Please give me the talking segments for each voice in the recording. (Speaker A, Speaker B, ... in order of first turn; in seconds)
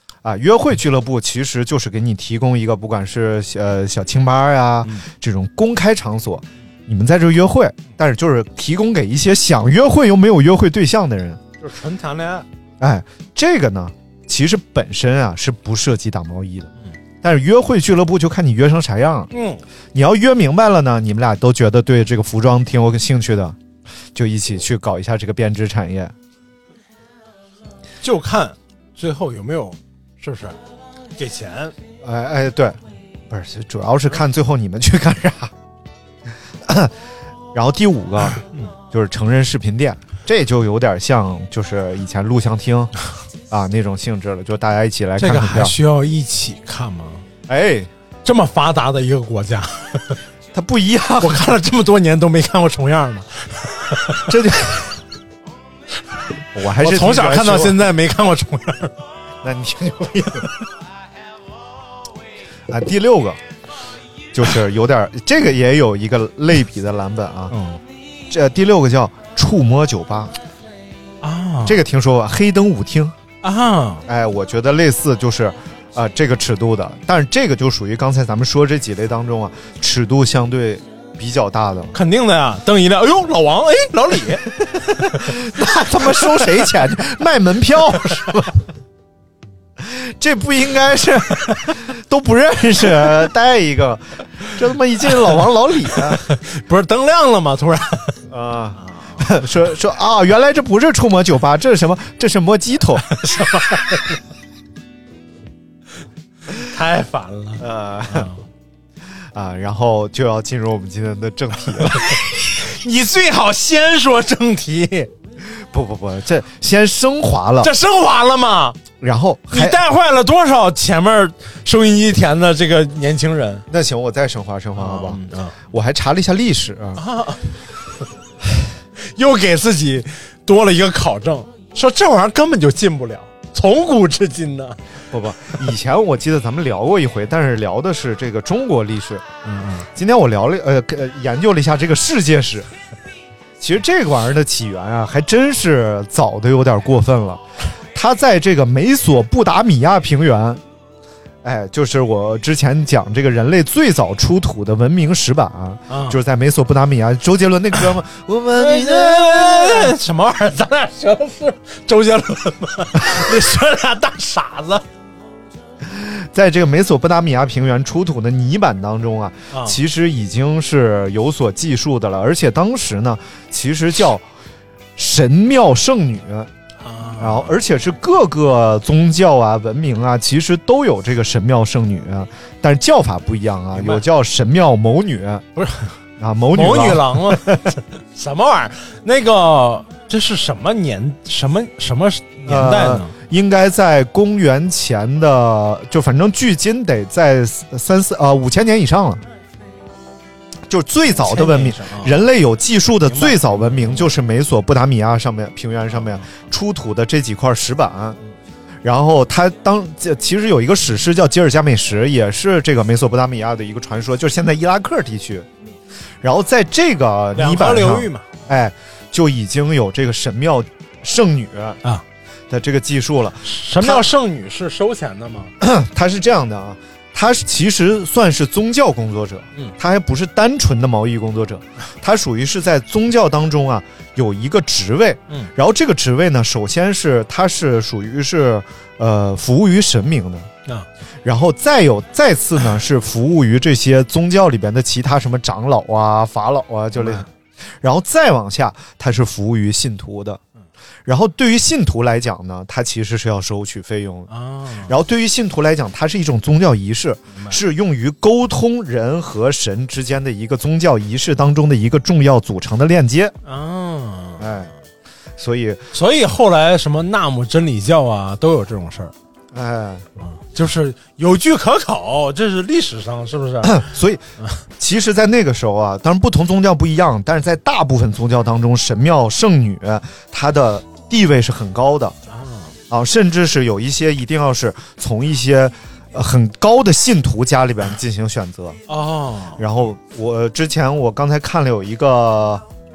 Speaker A: 0.2-11.4, 12.8-19.3, 19.9-23.6, 24.1-26.1, 32.0-32.8, 33.3-35.5, 36.6-36.9, 37.5-42.9, 43.5-45.8, 47.5-47.9, 50.5-51.5, 54.3-54.9, 56.5-57.9, 59.4-60.5, 62.7-63.4, 64.3-67.5, 68.3-70.3, 71.7-73.2, 74.1-82.0, 84.7-88.6, 89.8-96.2, 98.3-103.0, 107.6-108.3, 109.3-112.2, 115.4-117.7, 119.0-119.8, 123.7-127.0, 135.1-139.3, 139.9-142.7, 143.6-150.6, 151.4-159.9, 165.8-174.2, 175.0-176.5, 177.2-185.4, 186.2-187.8, 192.5-199.2, 200.7-208.2, 208.8-215.5, 216.2-221.8, 222.5-224.1, 225.6-240.5, 241.2-250.4, 251.1-254.3, 254.8-263.4, 264.4-264.7, 265.4-265.8, 269.5-270.0, 273.6-274.2, 274.8-282.2, 282.9-288.8, 289.6-292.6
Speaker B: 11.6-12.5, 19.3-19.6, 28.0-30.6, 31.2-31.7, 38.5-38.7, 45.2-47.2, 48.2-50.2, 51.2-54.3, 56.8-59.0, 67.5-67.8, 71.2-71.8, 73.4-74.0, 81.9-84.5, 96.1-98.2, 98.8-99.3, 103.1-104.2, 106.5-108.4, 112.2-115.1, 117.6-118.8, 119.5-123.7, 124.8-125.6, 127.0-127.5, 129.0-134.8, 139.4-139.9, 155.9-156.2, 158.6-164.8, 169.5-169.8, 176.8-177.6, 183.7-184.1, 185.6-185.9, 186.5-193.1, 201.2-202.2, 203.1-204.1, 205.9-206.3, 217.3-218.3, 223.4-225.5, 247.0-247.3, 254.3-254.9, 263.4-264.7, 265.9-269.1, 270.2-273.9, 282.3-282.8, 288.9-289.6